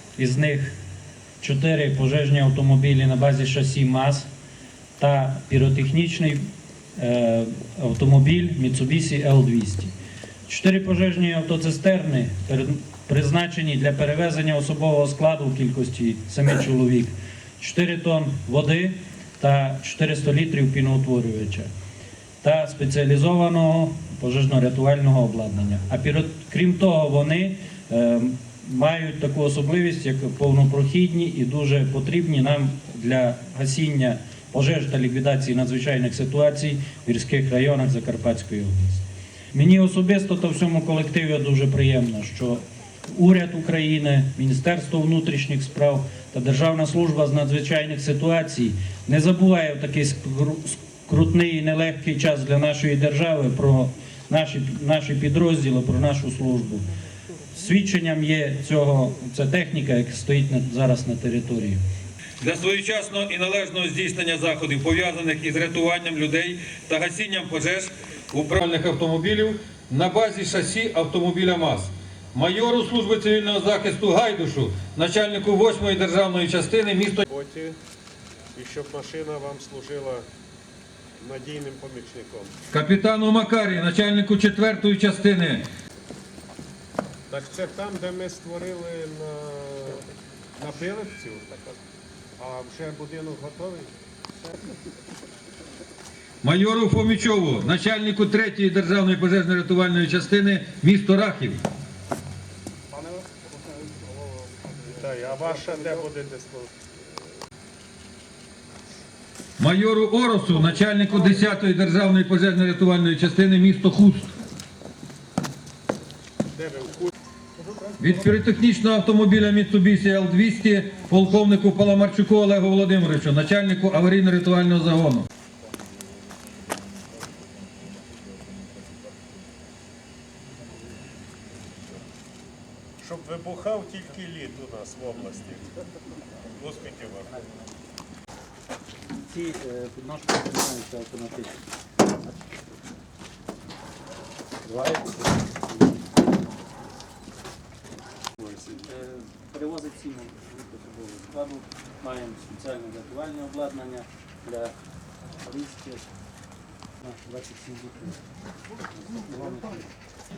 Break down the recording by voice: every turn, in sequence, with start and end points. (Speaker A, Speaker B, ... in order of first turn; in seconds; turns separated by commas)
Speaker A: 0.2-0.8, Speaker A: 1.4-4.3, Speaker A: 5.0-9.9, Speaker A: 10.5-21.7, Speaker A: 22.4-56.9, Speaker A: 57.5-61.8, Speaker B: 62.4-77.2, Speaker C: 77.2-77.8, Speaker C: 78.5-80.2, Speaker C: 81.2-82.5, Speaker B: 82.7-85.7, Speaker C: 87.3-90.0, Speaker C: 90.6-91.6, Speaker C: 92.4-93.9, Speaker B: 96.4-101.6, Speaker C: 104.9-107.0, Speaker B: 109.6-114.3, Speaker C: 116.6-117.1, Speaker B: 118.0-125.3, Speaker C: 133.0-135.7, Speaker C: 136.6-137.3, Speaker A: 139.2-141.6, Speaker A: 144.7-145.9, Speaker A: 148.4-154.8, Speaker A: 155.4-156.1, Speaker A: 157.0-158.2, Speaker A: 159.0-159.9